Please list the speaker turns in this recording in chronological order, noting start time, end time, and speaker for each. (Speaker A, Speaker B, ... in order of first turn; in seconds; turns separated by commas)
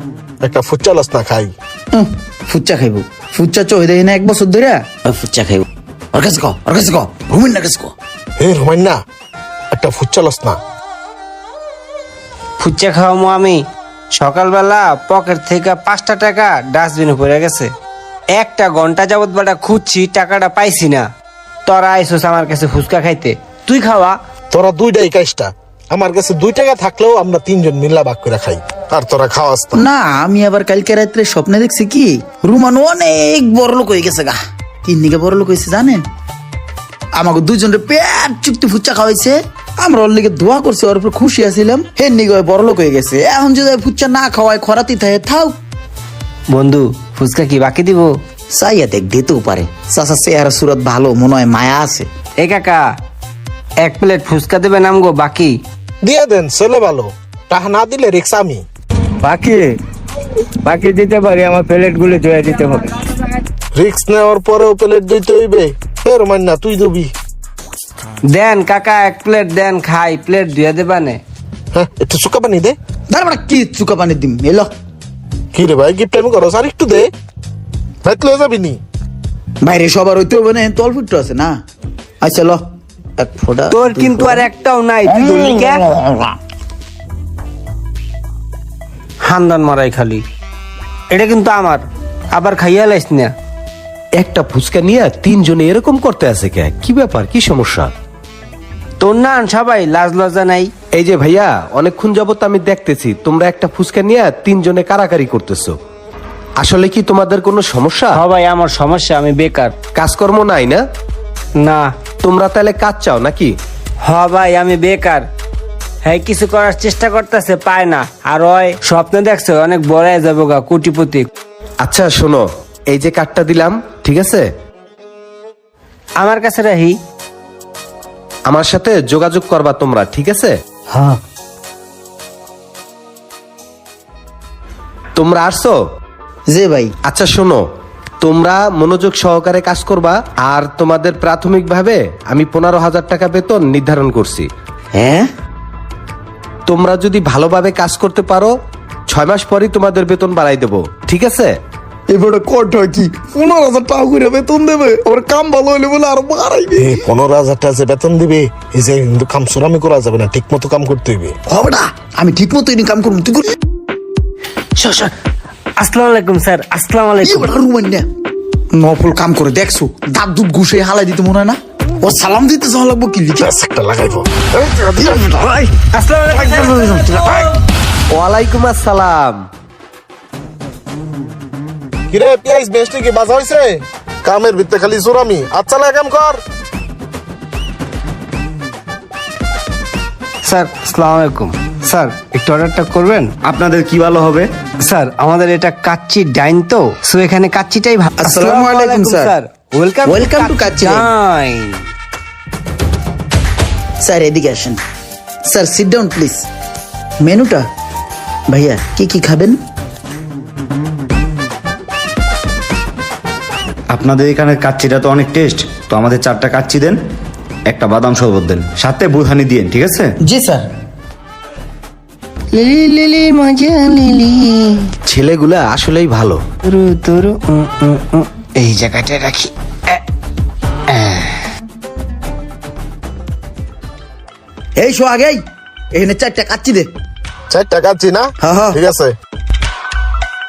Speaker A: 0.4-1.5, Speaker B: 1.9-7.9, Speaker A: 8.4-9.0, Speaker A: 9.7-10.6, Speaker C: 12.6-17.7, Speaker C: 18.3-21.1, Speaker C: 21.7-24.2, Speaker A: 24.5-29.9, Speaker B: 29.8-36.0, Speaker B: 37.2-45.6, Speaker C: 46.5-48.1, Speaker B: 48.5-52.1, Speaker C: 52.4-52.9, Speaker C: 53.8-55.6, Speaker A: 56.0-58.6, Speaker C: 59.2-59.8, Speaker C: 60.6-63.2, Speaker A: 63.8-67.1, Speaker C: 68.2-71.2, Speaker A: 71.7-72.8, Speaker B: 73.1-74.7, Speaker A: 75.5-77.1, Speaker A: 78.0-78.8, Speaker B: 79.6-81.5, Speaker B: 82.2-82.6, Speaker B: 83.2-84.5, Speaker C: 83.7-85.9, Speaker B: 85.9-86.3, Speaker C: 89.2-90.2, Speaker C: 91.1-93.3, Speaker D: 94.2-97.9, Speaker C: 99.0-100.7, Speaker D: 100.9-105.8, Speaker D: 106.6-108.2, Speaker C: 108.1-109.8, Speaker D: 110.0-110.8, Speaker C: 111.6-111.9, Speaker D: 112.2-113.5, Speaker C: 114.0-115.3, Speaker C: 116.0-121.3, Speaker D: 121.8-124.5, Speaker C: 126.2-127.0, Speaker D: 128.5-130.5, Speaker D: 135.2-135.8, Speaker B: 136.5-136.9, Speaker D: 137.1-137.6, Speaker D: 138.2-144.5, Speaker B: 144.9-145.3, Speaker D: 146.7-148.5, Speaker D: 149.1-151.5, Speaker B: 152.1-157.1, Speaker A: 156.8-161.4, Speaker B: 161.5-163.5, Speaker C: 164.8-165.1, Speaker C: 165.8-167.5, Speaker B: 167.2-168.1, Speaker B: 168.7-173.5, Speaker A: 173.4-175.3, Speaker B: 175.1-175.7, Speaker C: 175.9-177.5, Speaker B: 176.6-177.3, Speaker D: 178.1-179.5, Speaker A: 182.1-186.4, Speaker C: 190.4-193.3, Speaker E: 193.4-194.5, Speaker C: 194.8-201.9, Speaker B: 198.2-199.3, Speaker B: 200.1-201.1, Speaker B: 204.0-204.8, Speaker B: 205.5-206.5, Speaker B: 207.2-207.7, Speaker B: 208.5-209.6, Speaker E: 213.9-217.0, Speaker E: 217.7-220.1, Speaker B: 220.2-220.7, Speaker C: 222.5-224.9, Speaker D: 225.1-226.4, Speaker C: 226.6-230.0, Speaker C: 230.9-231.4, Speaker B: 234.8-235.4, Speaker B: 235.9-236.9, Speaker A: 237.5-239.2, Speaker B: 238.4-238.8